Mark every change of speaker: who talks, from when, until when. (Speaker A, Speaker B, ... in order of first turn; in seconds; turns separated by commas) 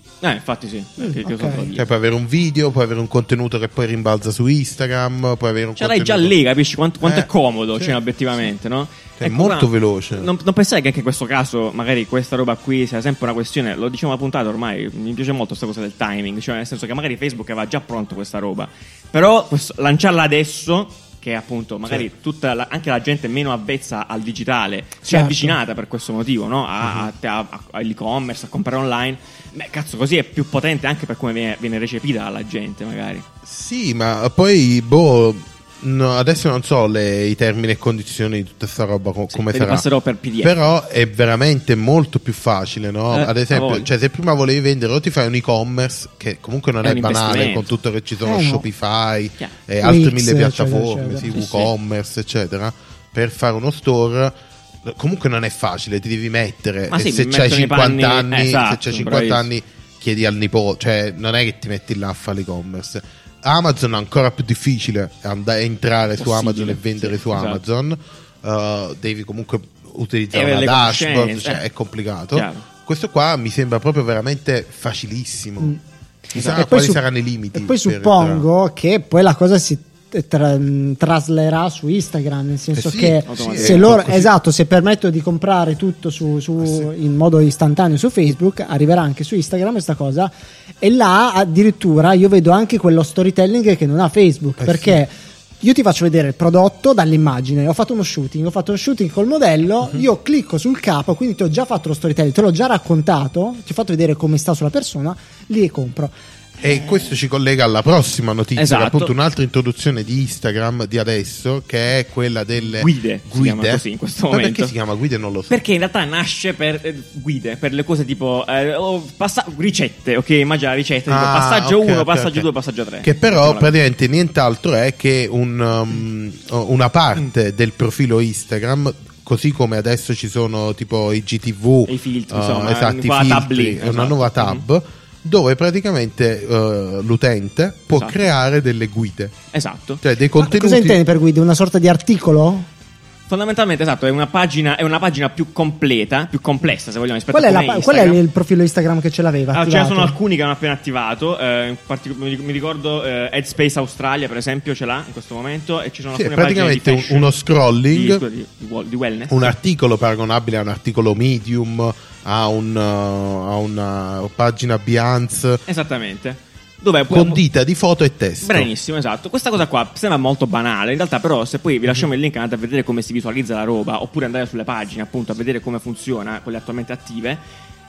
Speaker A: 0.2-1.9, Speaker B: 1.2-1.6, Speaker C: 1.6-6.3, Speaker A: 5.8-33.2, Speaker C: 7.0-8.0, Speaker C: 9.2-10.3, Speaker B: 25.0-25.5, Speaker C: 26.8-27.1, Speaker C: 33.4-39.9, Speaker A: 39.3-40.5, Speaker C: 40.4-75.8, Speaker A: 43.1-43.9, Speaker A: 46.8-47.7, Speaker B: 48.2-48.6, Speaker B: 49.8-51.3, Speaker A: 51.3-51.7, Speaker A: 56.9-59.5, Speaker A: 66.2-67.6, Speaker A: 70.3-71.6, Speaker A: 72.3-72.6, Speaker C: 76.3-78.5, Speaker A: 76.3-76.6, Speaker B: 76.4-77.0, Speaker B: 77.5-106.1, Speaker C: 82.7-84.3, Speaker A: 83.3-84.0, Speaker C: 86.6-86.9, Speaker C: 94.6-95.0, Speaker C: 106.6-115.6, Speaker A: 106.7-106.9, Speaker A: 108.5-109.1, Speaker A: 112.8-114.7, Speaker A: 115.5-123.7, Speaker C: 121.1-122.5, Speaker C: 123.0-139.4, Speaker A: 131.9-134.6, Speaker A: 137.9-138.2, Speaker A: 139.5-140.0, Speaker C: 140.0-141.0, Speaker B: 140.4-142.7, Speaker A: 143.3-148.2, Speaker B: 147.3-150.1, Speaker A: 149.5-157.3, Speaker C: 156.1-158.2, Speaker A: 157.9-159.5, Speaker C: 159.3-165.6, Speaker A: 165.7-167.4, Speaker C: 167.1-168.7, Speaker A: 168.4-177.4